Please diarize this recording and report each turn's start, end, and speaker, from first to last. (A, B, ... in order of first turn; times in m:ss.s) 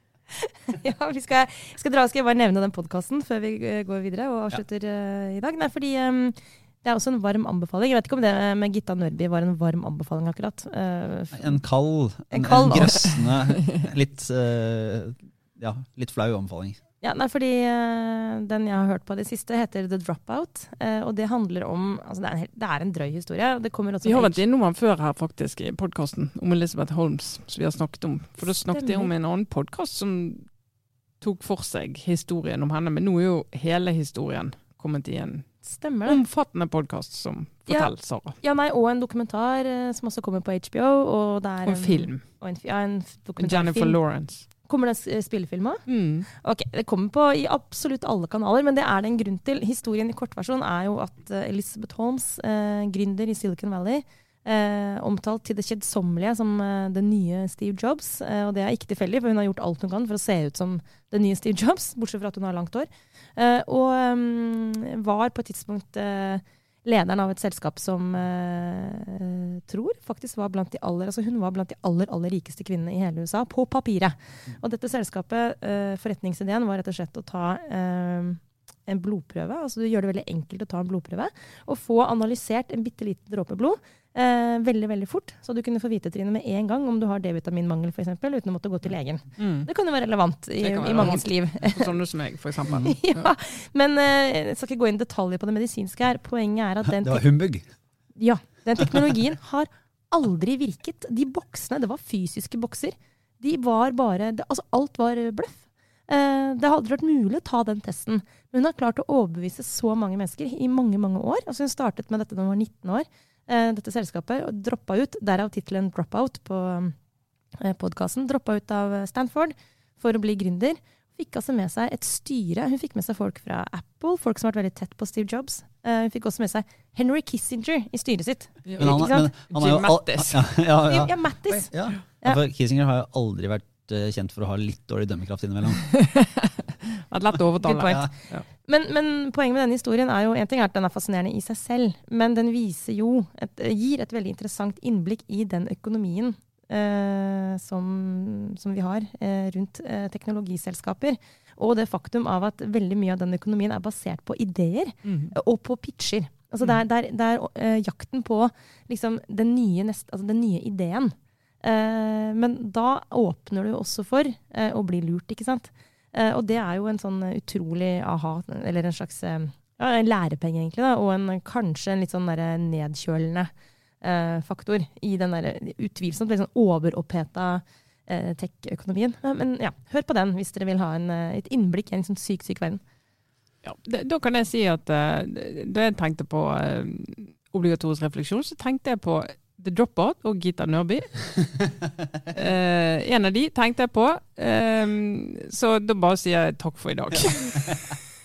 0:00.4-0:11.6 A
0:11.3-0:16.8 B
0:12.3-0:13.2 A
0:17.0-0:24.4 A
0:24.0-0:30.5 C
0:28.4-0:29.1 A
0:31.2-0:35.4 C
0:35.6-0:36.2 A
0:36.0-0:38.4 C
0:37.7-0:44.0 A
0:41.6-0:42.2 C
0:43.4-0:44.4 C
0:44.6-1:31.9 A
0:45.9-0:46.3 C
1:29.4-1:29.7 C
1:30.6-1:33.3 C
1:32.7-1:37.2 A
1:36.9-1:37.7 B
1:38.2-1:56.9 A
1:57.6-2:09.3 A
2:08.6-2:10.5 C
2:08.8-2:15.8 B
2:10.8-2:12.4 A
2:15.9-2:18.4 C
2:17.3-2:18.1 B
2:17.6-2:53.5 A
2:35.0-2:35.3 C
2:54.0-3:02.8 A
3:03.6-3:11.3 C
3:12.3-3:17.8 C